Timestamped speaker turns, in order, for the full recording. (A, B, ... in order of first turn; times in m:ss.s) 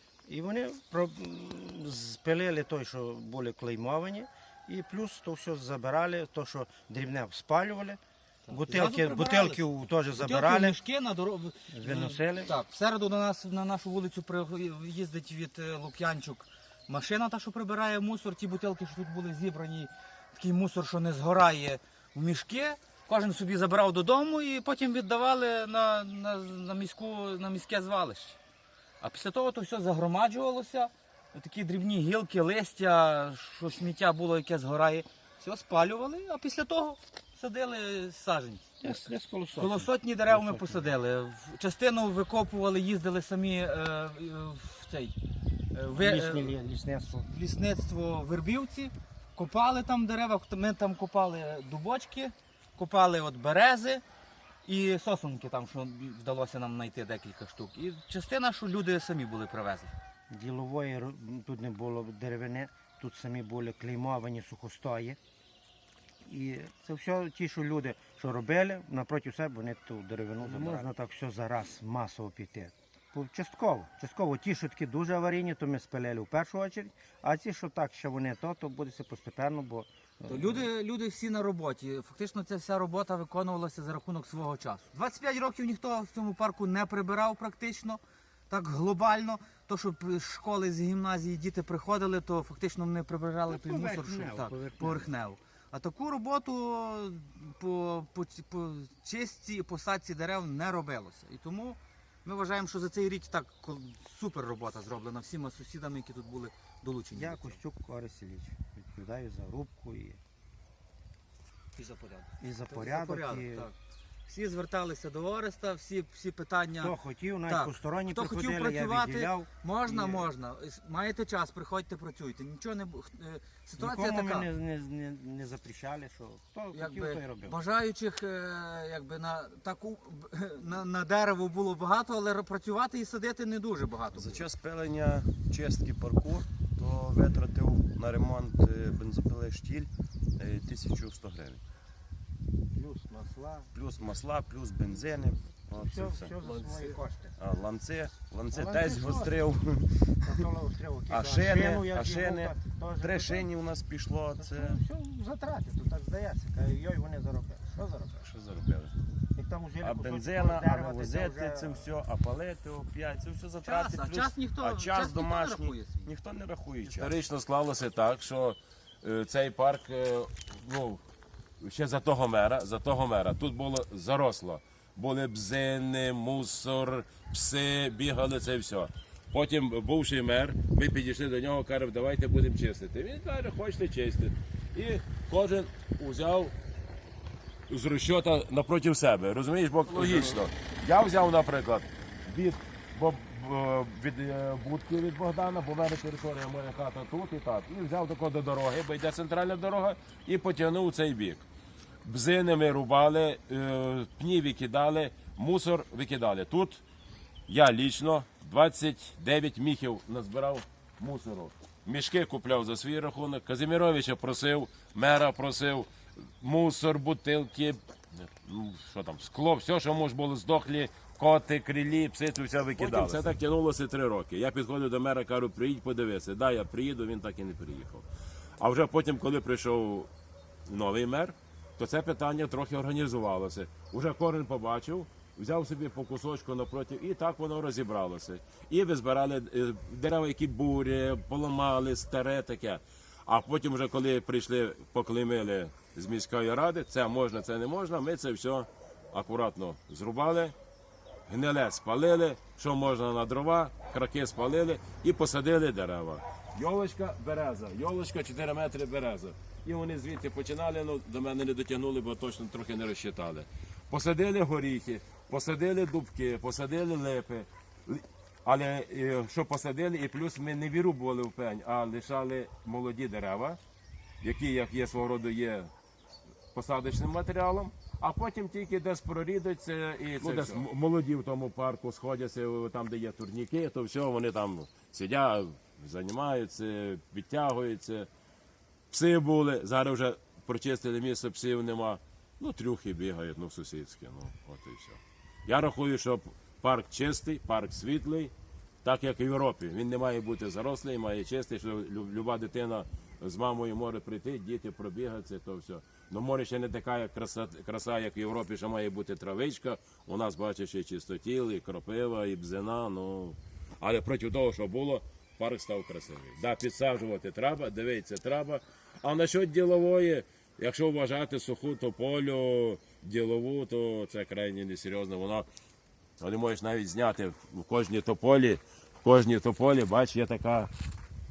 0:00.3-0:08.0 A
0:08.5-0:28.4 B
0:08.5-0:10.8 A
0:11.7-0:12.5 A
0:29.0-0:45.2 B
0:38.8-0:40.9 A
0:45.7-0:46.6 B
0:45.9-0:47.3 A
0:47.2-0:54.0 B
0:54.6-0:59.9 B
1:00.3-1:05.2 A
1:06.2-1:20.7 A
1:10.4-1:10.9 B
1:20.3-1:47.6 B
1:33.5-1:35.1 A
1:47.2-1:50.2 A
1:51.8-1:53.7 B
1:52.4-1:53.6 A
1:54.3-1:57.0 B
1:56.8-2:00.3 A
1:57.5-2:04.5 B
2:03.8-2:07.6 A
2:06.7-2:14.4 B
2:14.1-2:21.6 C
2:22.7-2:23.7 A
2:23.7-2:30.4 C
2:25.8-2:27.3 A
2:28.5-2:29.5 A
2:30.2-2:33.5 A
2:31.1-2:34.8 C
2:34.4-2:38.3 A
2:38.2-2:38.9 C
2:39.4-2:41.9 A
2:39.8-2:47.2 C
2:43.6-2:46.1 B
2:46.8-2:51.0 D
2:51.6-3:06.5 D
3:07.7-3:21.4 D
3:10.0-3:10.4 C
3:22.0-3:26.8 D
3:27.5-3:35.9 D
3:36.4-3:48.1 D
3:42.8-3:43.3 C
3:48.6-3:50.1 D
3:50.7-4:10.6 D
4:11.3-4:33.6 D
4:34.2-4:35.7 D
4:36.6-4:48.1 D
4:48.9-4:58.3 D
4:58.8-5:25.5 D
5:26.2-5:30.7 D